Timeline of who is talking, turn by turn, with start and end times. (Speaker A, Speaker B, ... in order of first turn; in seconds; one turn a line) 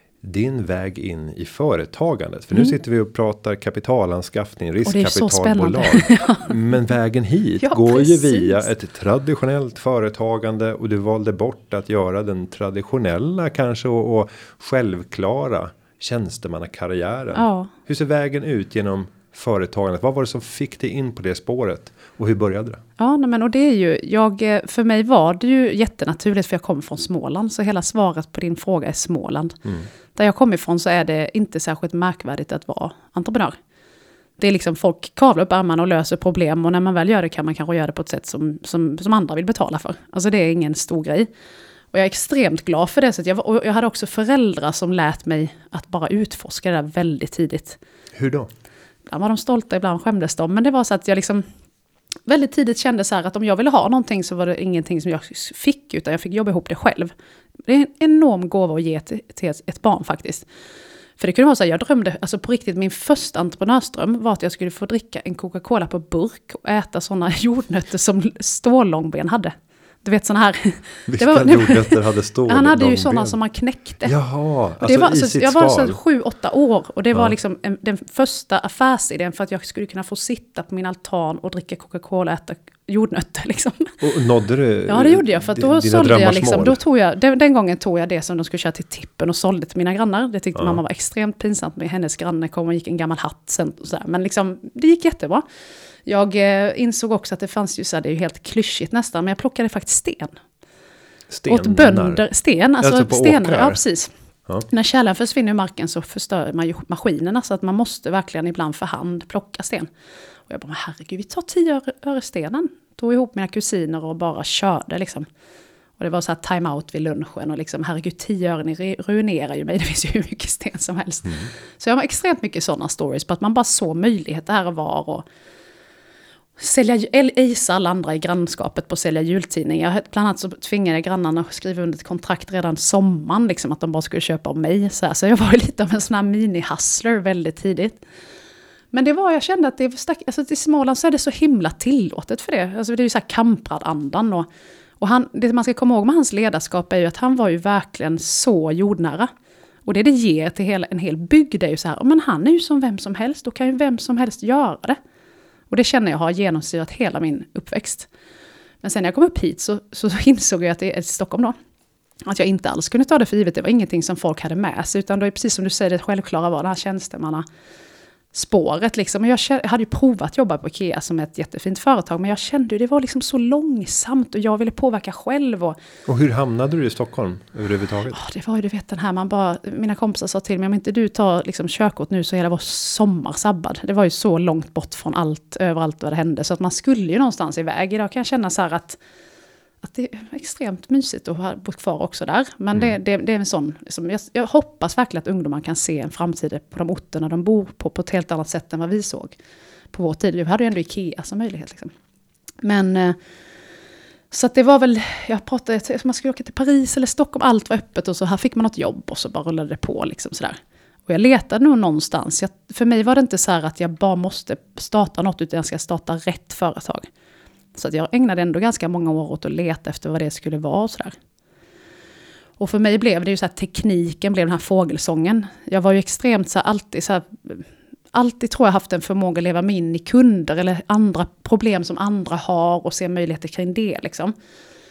Speaker A: 0.2-22.8
Speaker B: 4.8-6.6
Speaker B: 7.6-8.7
Speaker B: 17.3-17.7
Speaker B: 23.0-29.6
Speaker B: 30.1-33.6
Speaker B: 34.4-41.3
Speaker B: 41.9-47.8
Speaker A: 48.1-48.5
Speaker B: 49.1-51.5
Speaker B: 52.3-57.1
Speaker B: 57.6-60.5
Speaker B: 61.2-74.1
Speaker A: 71.1-73.4
Speaker A: 74.0-76.0
Speaker B: 74.8-84.0
Speaker A: 84.0-86.8
Speaker B: 84.9-95.4
Speaker B: 96.1-100.4
Speaker A: 101.3-102.2
Speaker B: 101.5-104.1
Speaker A: 102.8-103.8
Speaker B: 104.7-109.9
Speaker B: 110.5-115.3
Speaker B: 116.0-125.2
Speaker B: 126.6-138.0
Speaker B: 138.9-144.5
Speaker B: 145.0-149.3
Speaker B: 149.9-155.0
Speaker B: 155.7-158.1
Speaker B: 158.8-161.6
Speaker B: 162.3-167.4
Speaker B: 168.3-175.8
Speaker A: 176.1-178.2
Speaker B: 178.1-189.0
Speaker B: 189.8-199.3
Speaker B: 199.9-201.9
Speaker B: 202.6-203.2
Speaker B: 204.3-217.1
Speaker B: 217.8-221.2
Speaker B: 222.6-234.3